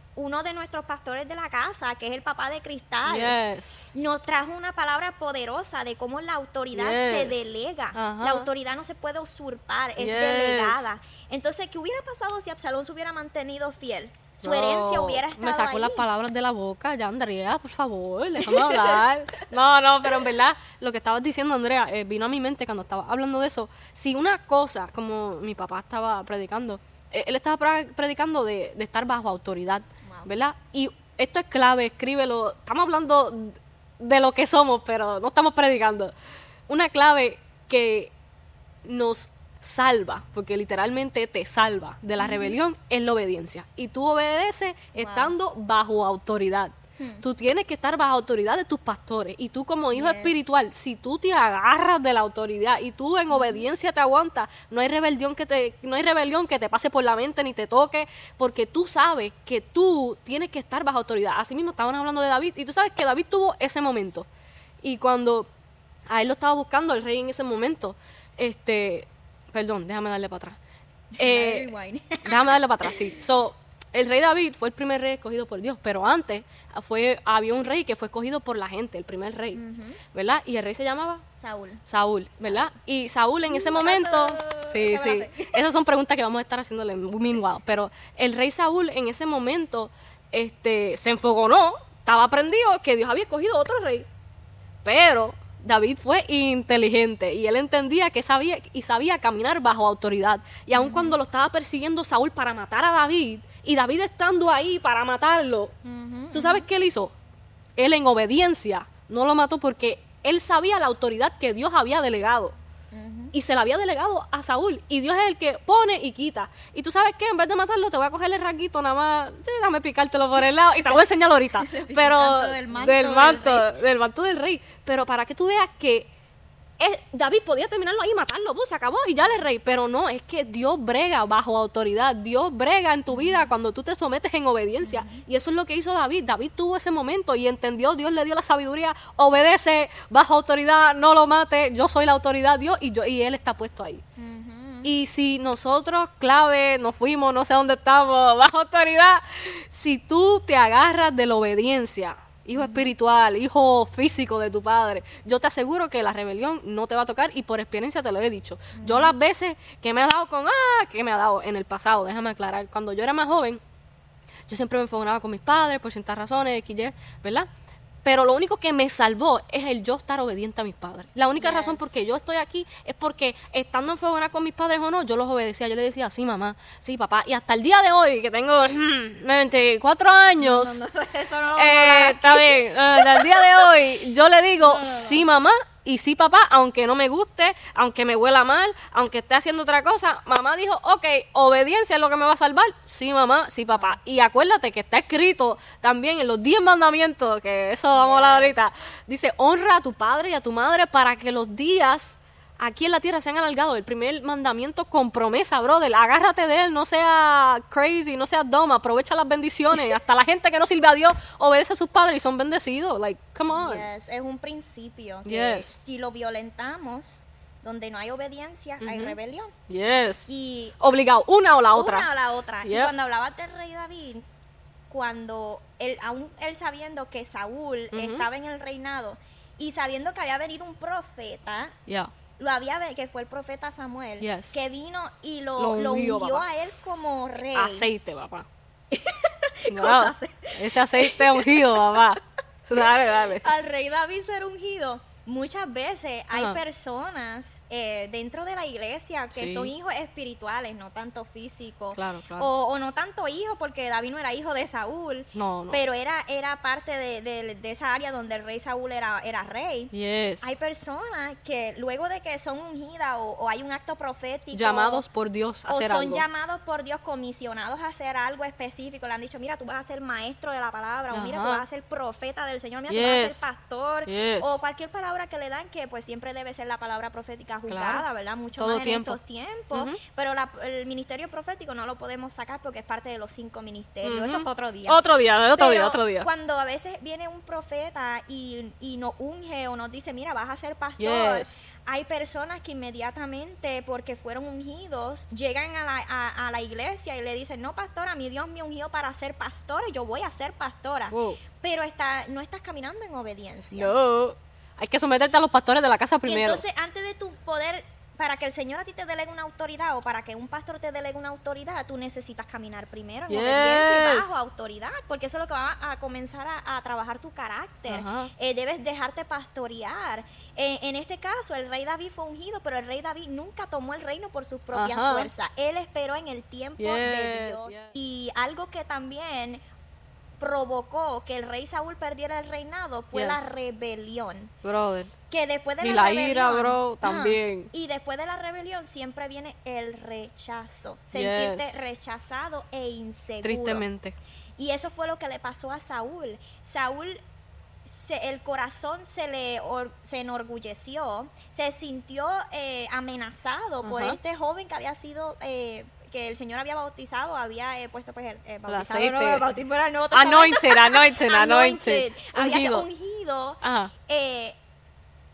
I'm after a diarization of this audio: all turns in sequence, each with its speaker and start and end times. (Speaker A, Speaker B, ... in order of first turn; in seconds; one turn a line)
Speaker A: 0.1-3.3
Speaker B: 3.1-4.0
Speaker A: 3.9-16.1
Speaker B: 6.7-8.5
Speaker B: 10.0-10.9
Speaker B: 14.4-36.1
Speaker A: 18.4-19.0
Speaker A: 30.0-30.3
Speaker B: 36.7-38.1
Speaker B: 38.8-64.3
Speaker A: 42.2-42.6
Speaker A: 45.0-45.3
Speaker A: 47.0-47.2
Speaker A: 49.9-50.4
Speaker A: 53.3-53.6
Speaker B: 64.8-65.5
Speaker B: 66.1-70.6
Speaker A: 71.2-73.0
Speaker B: 71.2-71.7
Speaker B: 72.2-79.6
Speaker A: 79.5-80.0
Speaker B: 80.1-81.2
Speaker A: 81.4-81.8
Speaker B: 81.9-94.1
Speaker A: 83.5-85.6
Speaker B: 94.8-105.7
Speaker A: 100.8-101.2
Speaker A: 105.8-106.7
Speaker B: 106.3-107.1
Speaker B: 107.8-112.5
Speaker A: 112.9-113.3
Speaker B: 113.3-126.1
Speaker A: 120.8-123.7
Speaker B: 126.8-144.0
Speaker A: 133.1-133.5
Speaker A: 134.8-135.2
Speaker A: 144.2-144.9
Speaker B: 144.8-163.6
Speaker A: 152.6-152.9
Speaker A: 158.8-159.1
Speaker B: 164.5-167.5
Speaker B: 168.0-180.8
Speaker A: 171.4-172.0
Speaker A: 180.4-183.8
Speaker B: 181.6-213.9
Speaker A: 184.6-185.2
Speaker A: 197.9-198.6
Speaker A: 213.5-219.5
Speaker B: 215.2-215.8
Speaker B: 218.8-219.2
Speaker B: 219.7-220.3
Speaker A: 220.3-220.8
Speaker B: 220.8-222.1
Speaker A: 221.7-224.2
Speaker B: 222.6-222.9
Speaker A: 224.9-231.8
Speaker B: 227.9-228.2
Speaker B: 231.9-232.1
Speaker A: 232.4-237.9
Speaker B: 234.2-234.6
Speaker B: 235.6-237.0
Speaker B: 237.5-238.5
Speaker A: 238.9-241.9
Speaker B: 239.7-243.4
Speaker A: 242.8-265.0
Speaker B: 246.3-246.6
Speaker B: 249.3-249.7
Speaker B: 251.9-252.5
Speaker B: 255.3-255.8
Speaker B: 259.9-260.6
Speaker B: 264.5-266.2
Speaker A: 265.7-285.0
Speaker B: 271.1-271.6
Speaker B: 272.9-273.4
Speaker B: 274.1-274.6
Speaker B: 277.7-278.0
Speaker B: 278.6-279.2
Speaker B: 279.7-280.0
Speaker B: 284.0-286.3
Speaker A: 285.5-303.9
Speaker B: 291.0-291.6
Speaker B: 301.1-301.4
Speaker B: 303.7-306.6
Speaker A: 306.2-329.6
Speaker B: 313.3-314.3
Speaker B: 317.9-318.3
Speaker B: 324.7-325.3
Speaker B: 326.8-327.9
Speaker A: 330.4-334.5
Speaker B: 333.1-333.5
Speaker B: 334.6-335.1
Speaker A: 335.3-343.8
Speaker B: 335.8-337.7
Speaker B: 341.1-341.8
Speaker B: 343.4-344.2
Speaker A: 344.6-347.2
Speaker A: 347.9-364.6
Speaker B: 353.8-354.2
Speaker B: 358.7-359.4
Speaker B: 360.1-362.9
Speaker B: 363.6-363.9